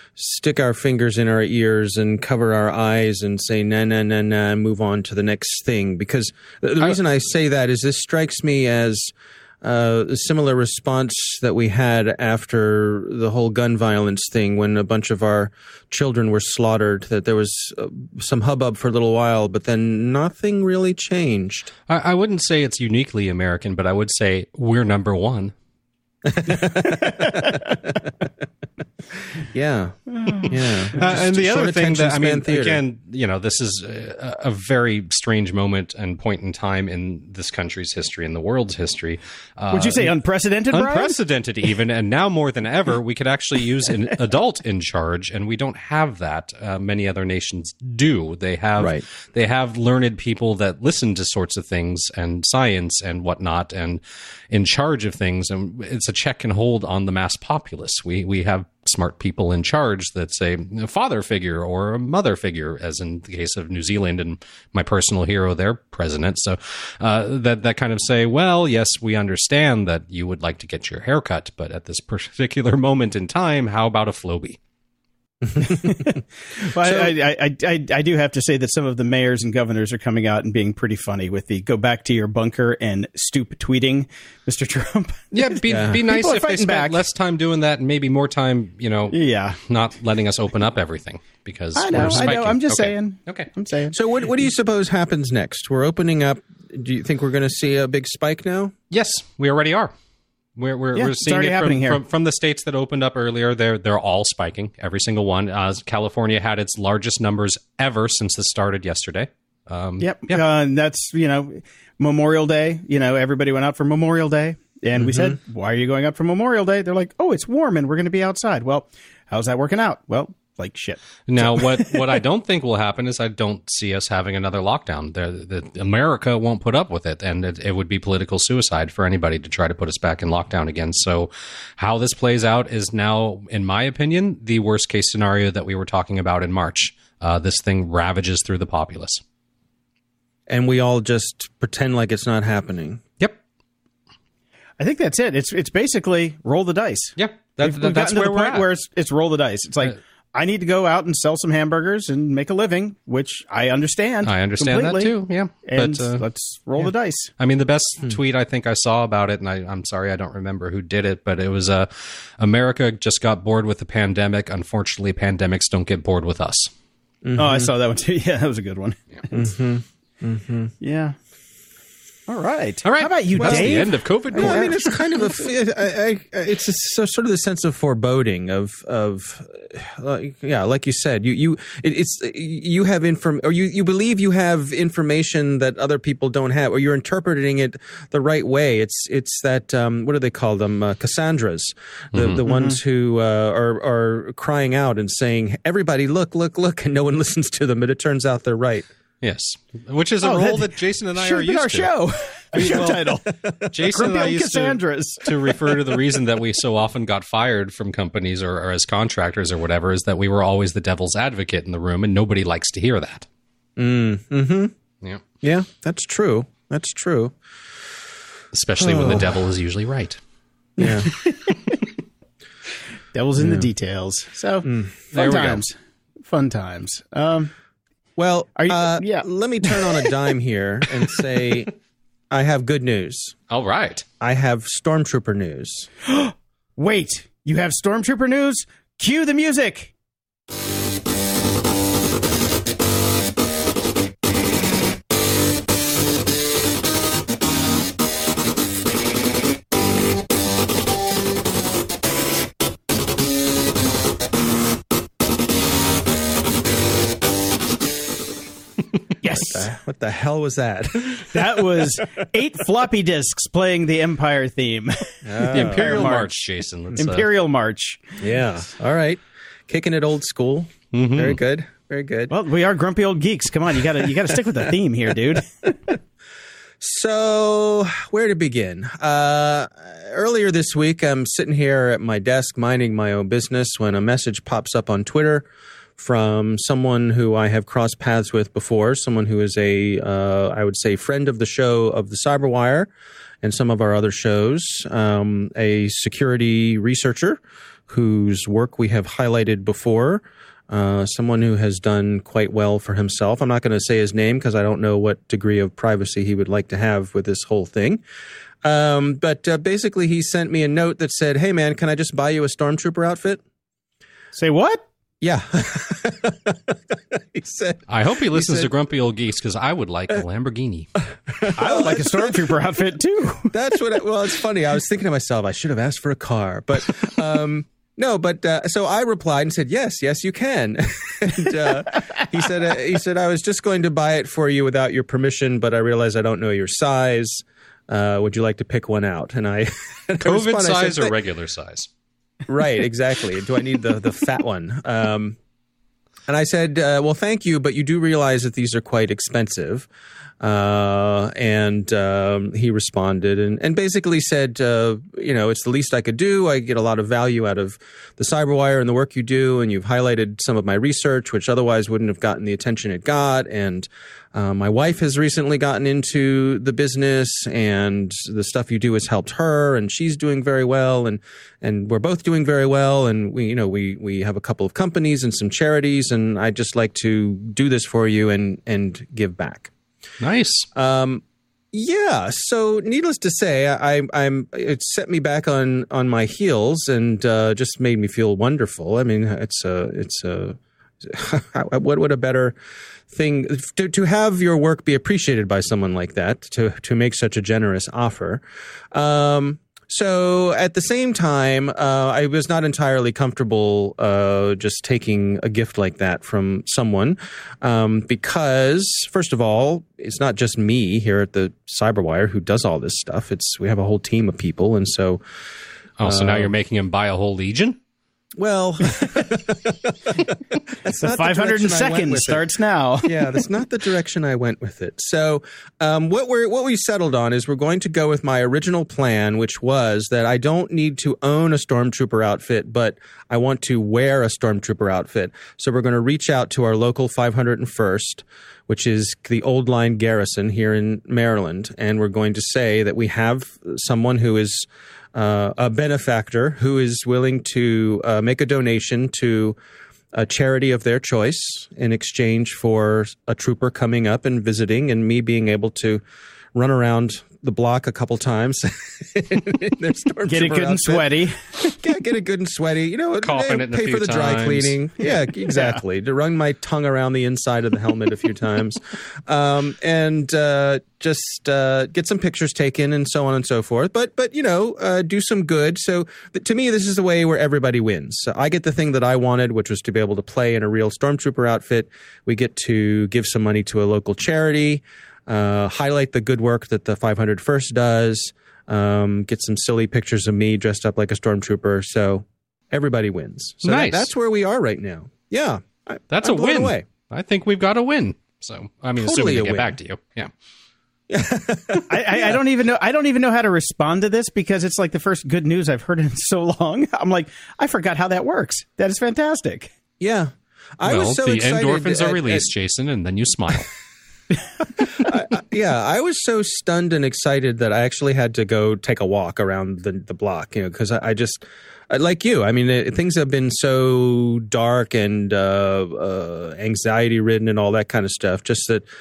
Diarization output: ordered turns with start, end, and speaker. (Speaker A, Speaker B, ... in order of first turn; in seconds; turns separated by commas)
Speaker A: 0.1-21.7, Speaker B: 21.9-25.5, Speaker A: 26.2-27.6, Speaker A: 29.4-32.8, Speaker C: 30.2-30.4, Speaker B: 30.9-40.2, Speaker C: 39.7-41.1, Speaker B: 40.7-74.6, Speaker A: 48.8-49.0, Speaker A: 75.6-76.0, Speaker C: 75.7-87.0, Speaker B: 85.3-93.5, Speaker A: 85.7-86.0, Speaker C: 89.1-89.6, Speaker C: 91.7-93.9, Speaker A: 91.9-92.3, Speaker A: 93.9-98.7, Speaker B: 98.9-99.9, Speaker B: 100.5-110.4, Speaker C: 100.9-102.0, Speaker C: 110.0-122.0, Speaker B: 121.3-139.2, Speaker A: 140.5-143.0, Speaker C: 144.8-157.3, Speaker B: 147.2-148.7, Speaker B: 154.2-156.2, Speaker B: 157.4-166.7, Speaker A: 167.2-167.7, Speaker C: 167.4-169.5, Speaker A: 169.3-170.7, Speaker C: 170.8-171.2, Speaker C: 172.3-175.4, Speaker B: 172.8-174.8, Speaker A: 173.4-198.9, Speaker B: 192.1-192.4, Speaker C: 192.4-192.8, Speaker B: 199.2-201.9, Speaker C: 200.2-203.3, Speaker B: 202.5-213.3, Speaker C: 203.8-206.0, Speaker A: 213.8-214.7, Speaker A: 215.4-217.3, Speaker B: 218.5-220.2, Speaker A: 218.8-219.4, Speaker A: 220.8-221.1, Speaker C: 220.8-221.8, Speaker C: 223.1-225.7, Speaker A: 223.4-223.7, Speaker A: 224.6-224.9, Speaker B: 225.1-225.6, Speaker C: 226.3-227.5, Speaker A: 228.2-231.7, Speaker C: 228.6-230.1, Speaker A: 232.3-233.3, Speaker B: 233.5-234.1, Speaker A: 234.2-235.9, Speaker C: 236.1-239.9, Speaker C: 259.2-259.7, Speaker A: 259.4-261.9, Speaker C: 261.3-266.4, Speaker A: 265.2-266.2, Speaker B: 265.5-267.3, Speaker C: 266.9-268.1, Speaker A: 268.2-272.3, Speaker B: 270.9-271.4, Speaker C: 272.3-275.7, Speaker A: 276.8-285.5, Speaker A: 286.0-292.9, Speaker A: 293.4-308.0, Speaker A: 308.6-313.4, Speaker C: 314.3-314.8, Speaker A: 315.2-318.7, Speaker B: 317.9-320.9, Speaker A: 321.4-322.5, Speaker C: 321.6-323.5, Speaker A: 323.5-341.1, Speaker B: 340.2-341.9, Speaker A: 342.5-345.4, Speaker A: 346.3-349.9, Speaker A: 350.4-379.7, Speaker B: 380.2-380.7, Speaker A: 380.7-392.5, Speaker A: 393.1-415.2, Speaker B: 416.0-417.8, Speaker A: 416.0-416.5, Speaker A: 418.4-422.4, Speaker C: 421.0-423.3, Speaker A: 423.0-449.6, Speaker A: 450.1-456.0, Speaker A: 456.5-496.8, Speaker C: 460.2-461.7, Speaker B: 463.2-464.8, Speaker B: 493.6-494.1, Speaker B: 496.1-500.3, Speaker A: 499.0-499.8, Speaker A: 501.1-502.4, Speaker C: 501.9-509.7, Speaker A: 510.0-512.5, Speaker B: 510.8-513.7, Speaker A: 514.8-528.8